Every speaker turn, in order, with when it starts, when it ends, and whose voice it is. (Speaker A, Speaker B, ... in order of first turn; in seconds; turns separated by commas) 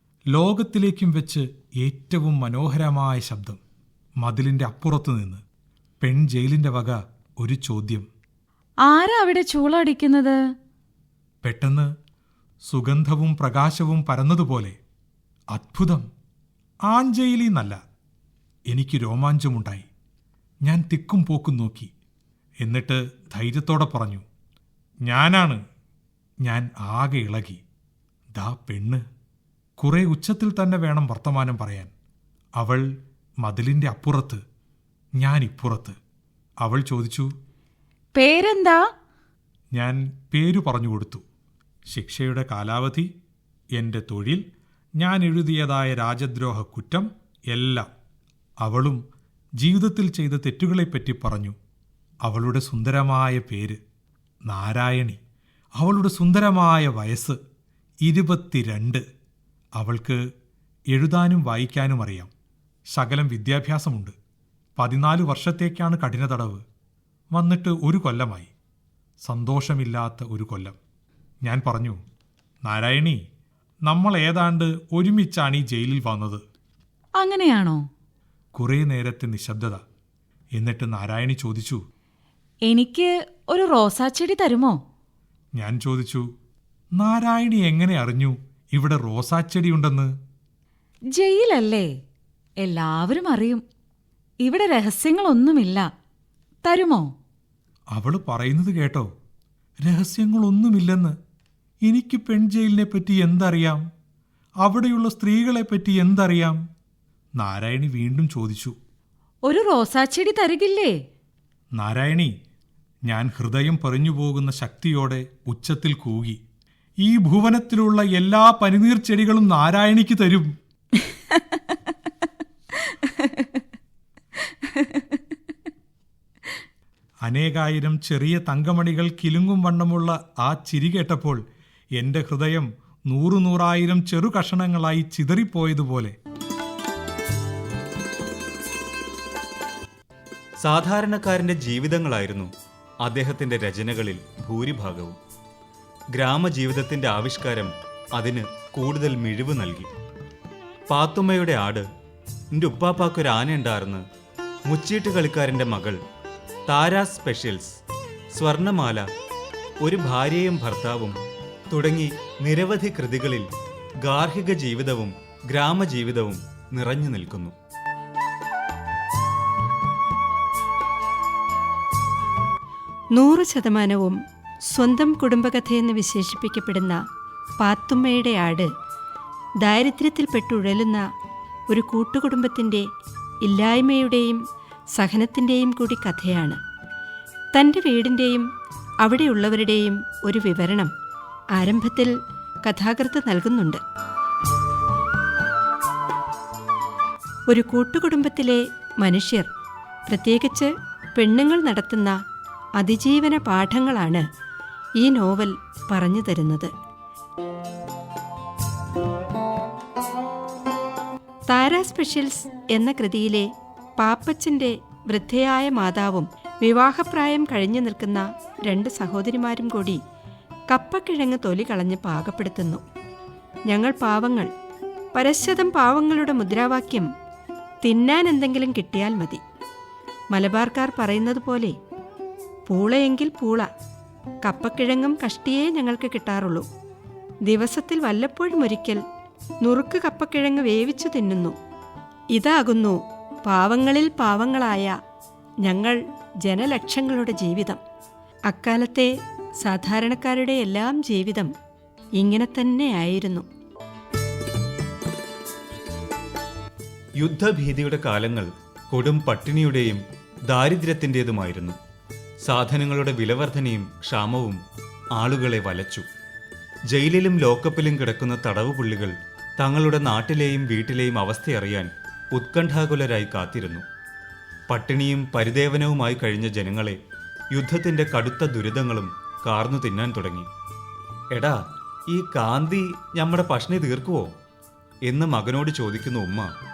Speaker A: 0.3-3.6, Speaker A: 4.2-5.4, Speaker A: 6.0-8.1, Speaker B: 8.9-10.4, Speaker A: 11.4-11.9, Speaker A: 12.7-14.8, Speaker A: 15.5-16.1, Speaker A: 16.9-17.8, Speaker A: 18.7-19.9, Speaker A: 20.6-21.9, Speaker A: 22.6-24.2, Speaker A: 25.1-25.6, Speaker A: 26.4-27.6, Speaker A: 28.4-29.0, Speaker A: 29.8-31.9, Speaker A: 32.6-32.9, Speaker A: 33.4-34.4, Speaker A: 35.2-36.0, Speaker A: 36.6-37.3, Speaker B: 38.1-38.8, Speaker A: 39.7-41.2, Speaker A: 41.9-43.1, Speaker A: 43.7-44.4, Speaker A: 45.0-47.9, Speaker A: 48.6-49.0, Speaker A: 49.6-51.5, Speaker A: 52.2-53.8, Speaker A: 54.5-55.2, Speaker A: 55.8-57.4, Speaker A: 58.0-59.0, Speaker A: 59.8-60.2, Speaker A: 60.9-62.3, Speaker A: 62.9-64.1, Speaker A: 64.8-66.6, Speaker A: 67.3-68.5, Speaker A: 69.2-70.8, Speaker A: 71.4-72.0, Speaker A: 72.6-73.2, Speaker A: 73.9-76.4, Speaker B: 77.2-77.8, Speaker A: 78.5-79.8, Speaker A: 80.5-81.8, Speaker B: 82.7-84.8, Speaker A: 85.6-86.3, Speaker A: 86.9-90.1, Speaker B: 91.1-91.9, Speaker B: 92.6-93.6, Speaker B: 94.4-95.9, Speaker B: 96.6-97.1, Speaker A: 97.9-99.1, Speaker A: 99.8-101.2, Speaker A: 101.8-103.8, Speaker A: 104.6-106.6, Speaker A: 107.4-108.7, Speaker B: 109.4-110.9, Speaker A: 111.8-112.3, Speaker A: 113.1-116.4, Speaker A: 117.0-120.5, Speaker B: 121.0-121.6, Speaker B: 122.8-123.6, Speaker B: 124.7-125.0, Speaker A: 127.2-131.4, Speaker A: 132.0-136.1, Speaker C: 140.6-142.5, Speaker C: 143.0-145.2, Speaker C: 146.1-149.9, Speaker C: 150.9-151.8, Speaker C: 152.5-154.0, Speaker C: 154.7-156.0, Speaker C: 156.7-157.8, Speaker C: 158.3-159.1, Speaker C: 159.8-161.2, Speaker C: 161.7-163.5, Speaker C: 164.0-167.5, Speaker D: 173.1-174.2, Speaker D: 174.7-177.0, Speaker D: 177.6-178.7, Speaker D: 179.6-181.0, Speaker D: 181.7-182.9, Speaker D: 183.4-184.4, Speaker D: 184.9-186.6, Speaker D: 187.5-188.4, Speaker D: 189.0-190.9, Speaker D: 191.5-192.1, Speaker D: 192.6-193.8, Speaker D: 197.5-199.5, Speaker D: 200.1-202.2, Speaker D: 202.8-204.2, Speaker D: 205.0-206.7, Speaker D: 211.5-220.0, Speaker D: 220.7-222.8, Speaker D: 223.7-224.5, Speaker D: 225.1-227.1, Speaker D: 227.8-229.4, Speaker D: 230.3-231.8, Speaker D: 232.7-233.7, Speaker D: 234.4-236.6, Speaker D: 237.5-239.0, Speaker D: 239.6-241.6, Speaker D: 242.3-244.9, Speaker D: 245.6-247.8, Speaker D: 248.5-251.5, Speaker D: 252.2-253.4, Speaker C: 257.2-261.8, Speaker C: 262.4-264.6, Speaker C: 265.1-266.1, Speaker C: 266.9-273.8, Speaker C: 274.7-277.0, Speaker C: 277.5-280.5, Speaker C: 281.3-284.4, Speaker C: 285.1-286.5